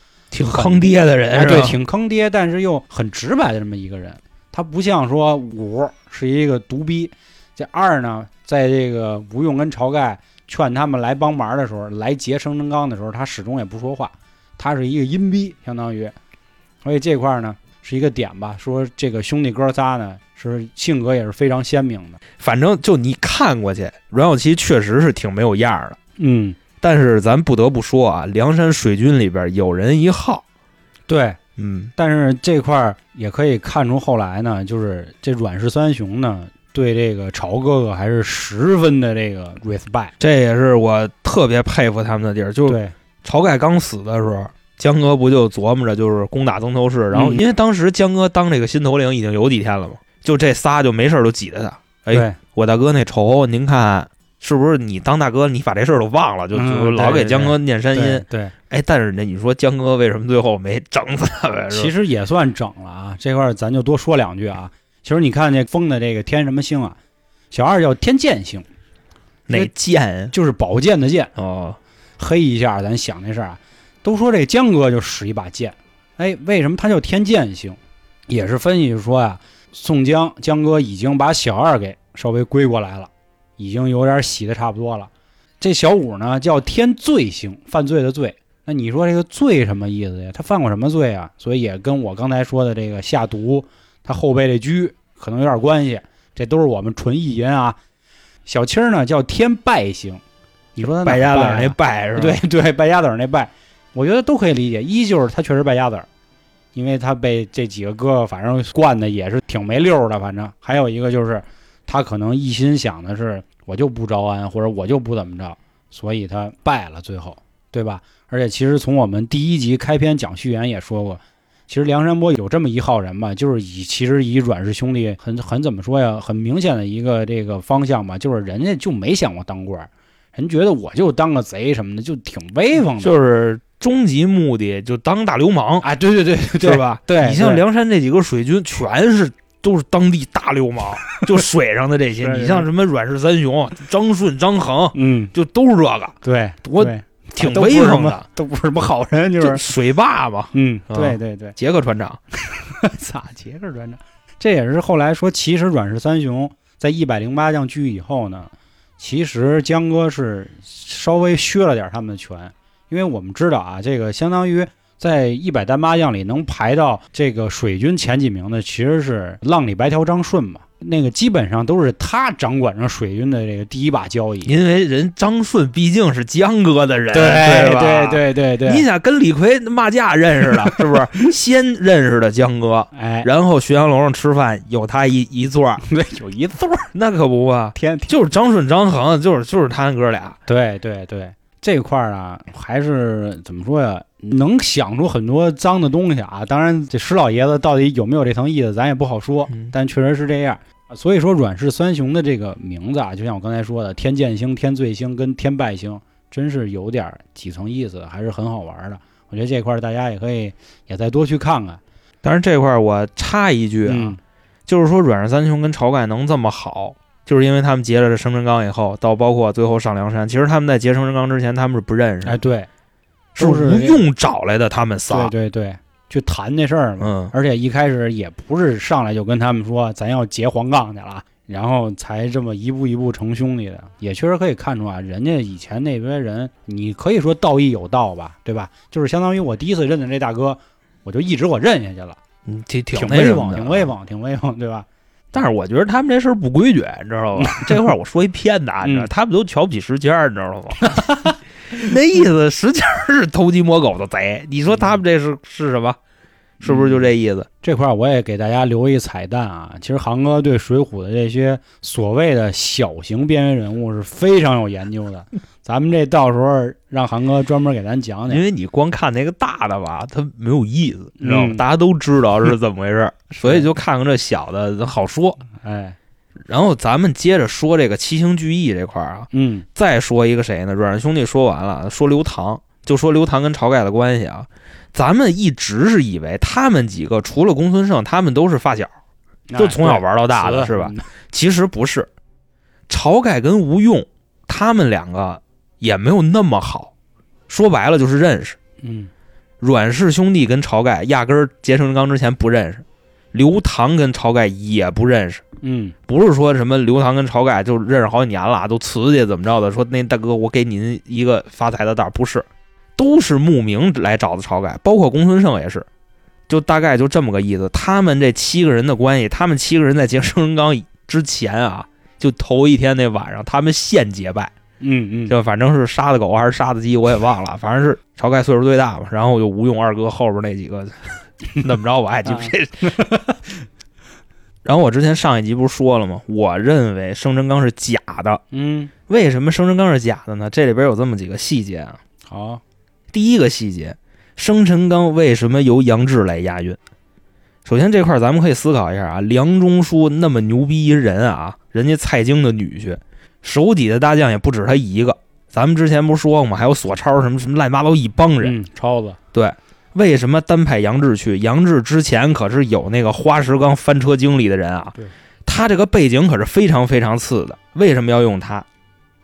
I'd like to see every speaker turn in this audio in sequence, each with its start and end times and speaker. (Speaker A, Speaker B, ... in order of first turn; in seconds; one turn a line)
Speaker A: 0.3-1.8
Speaker B: 0.4-16.1
Speaker B: 16.8-22.2
Speaker A: 22.4-26.0
Speaker B: 26.2-26.6
Speaker A: 26.8-30.4
Speaker B: 31.1-31.4
Speaker A: 31.6-31.9
Speaker B: 32.0-40.1
Speaker A: 40.2-61.9
Speaker B: 42.7-42.9
Speaker B: 47.1-47.4
Speaker B: 52.1-52.4
Speaker B: 56.5-58.5
Speaker B: 61.7-67.0
Speaker B: 67.5-68.7
Speaker A: 69.5-70.3
Speaker B: 70.3-71.3
Speaker A: 71.4-71.8
Speaker B: 72.2-85.1
Speaker B: 85.6-97.8
Speaker B: 98.5-100.2
Speaker B: 100.8-106.1
Speaker A: 100.8-102.4
Speaker B: 106.8-133.1
Speaker A: 133.0-135.9
Speaker B: 135.8-137.6
Speaker A: 136.6-148.2
Speaker B: 141.1-141.4
Speaker B: 142.2-142.7
Speaker B: 144.9-145.3
Speaker B: 146.2-149.7
Speaker A: 149.4-152.2
Speaker B: 150.5-151.6
Speaker B: 152.5-174.5
Speaker A: 174.4-185.8
Speaker B: 177.1-178.8
Speaker B: 180.7-181.2
Speaker B: 182.9-183.3
Speaker B: 185.8-186.9
Speaker A: 186.9-190.4
Speaker B: 187.8-188.1
Speaker B: 190.5-211.8
Speaker A: 212.2-214.2
Speaker B: 213.9-214.2
Speaker A: 214.7-222.4
Speaker B: 222.2-222.7
Speaker A: 223.3-225.3
Speaker B: 223.4-224.0
Speaker B: 225.1-242.2
Speaker A: 227.0-227.3
Speaker A: 242.5-243.9
Speaker B: 242.9-244.9
Speaker A: 245.3-251.0
Speaker B: 247.4-247.8
Speaker B: 248.8-249.1
Speaker B: 250.8-251.8
Speaker A: 251.8-256.0
Speaker A: 256.6-257.5
Speaker B: 256.6-257.1
Speaker B: 257.6-268.4
Speaker A: 268.3-275.4
Speaker B: 271.2-271.6
Speaker B: 273.3-273.7
Speaker B: 275.6-276.0
Speaker A: 276.5-288.9
Speaker B: 279.3-279.7
Speaker B: 289.5-291.1
Speaker A: 289.6-292.1
Speaker A: 292.9-296.9
Speaker A: 297.5-298.6
Speaker B: 298.8-299.1
Speaker A: 299.6-305.4
Speaker B: 305.6-305.9
Speaker A: 306.1-312.5
Speaker A: 313.0-315.9
Speaker A: 316.5-324.5
Speaker B: 324.8-325.4
Speaker A: 325.3-333.0
Speaker B: 332.3-333.4
Speaker A: 334.6-338.4
Speaker B: 338.5-338.9
Speaker A: 339.1-342.0
Speaker B: 342.3-342.6
Speaker A: 343.1-346.8
Speaker A: 347.6-358.6
Speaker B: 358.4-359.2
Speaker A: 359.3-368.6